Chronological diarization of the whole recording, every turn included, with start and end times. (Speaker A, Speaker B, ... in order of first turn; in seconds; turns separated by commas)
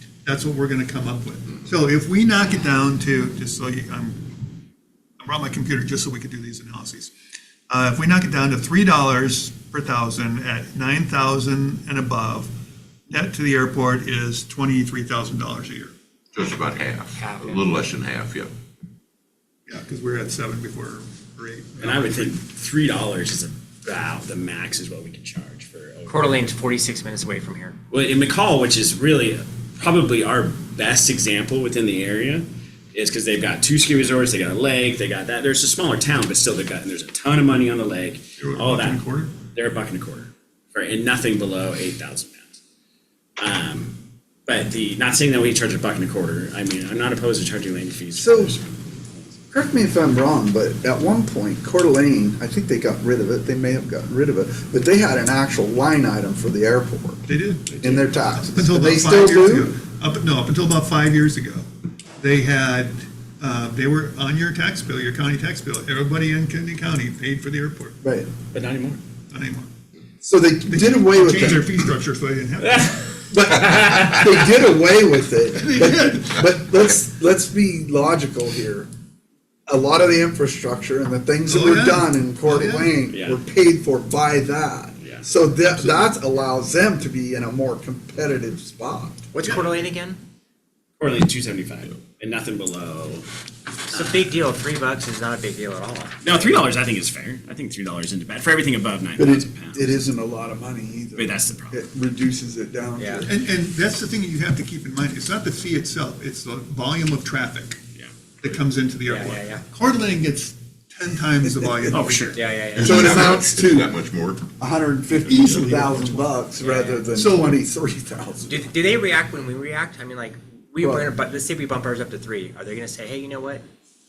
Speaker A: 0.2-4.3, Speaker A: 5.2-7.1, Speaker A: 7.7-12.5, Speaker A: 13.1-15.9, Speaker B: 16.3-18.5, Speaker C: 17.2-17.6, Speaker A: 19.7-22.3, Speaker D: 21.8-26.4, Speaker C: 26.1-27.8, Speaker D: 27.9-42.6, Speaker A: 38.4-39.3, Speaker D: 43.4-49.4, Speaker E: 48.2-48.5, Speaker E: 49.5-57.2, Speaker A: 57.3-61.7, Speaker E: 57.8-59.8, Speaker A: 62.2-68.0, Speaker E: 68.0-68.3, Speaker D: 68.5-69.0, Speaker A: 69.3-69.7, Speaker E: 70.2-71.7, Speaker A: 70.7-72.9, Speaker D: 72.6-74.4, Speaker E: 73.3-78.9, Speaker A: 75.6-76.4, Speaker E: 79.7-89.3, Speaker A: 81.5-82.9, Speaker D: 83.1-83.4, Speaker D: 85.0-85.2, Speaker C: 89.3-90.2, Speaker D: 91.0-93.3, Speaker D: 93.9-94.3, Speaker C: 93.9-96.6, Speaker D: 96.2-100.1, Speaker E: 99.2-103.3, Speaker D: 101.2-101.8, Speaker C: 103.0-103.2, Speaker A: 103.2-107.8, Speaker A: 108.4-112.4, Speaker C: 109.0-109.6, Speaker E: 111.5-112.0, Speaker D: 111.9-112.4, Speaker C: 112.3-113.4, Speaker B: 112.7-114.5, Speaker E: 112.8-113.9, Speaker E: 114.6-118.7, Speaker A: 115.2-116.2, Speaker C: 116.6-117.1, Speaker A: 117.1-117.6, Speaker C: 118.5-123.6, Speaker E: 120.8-121.1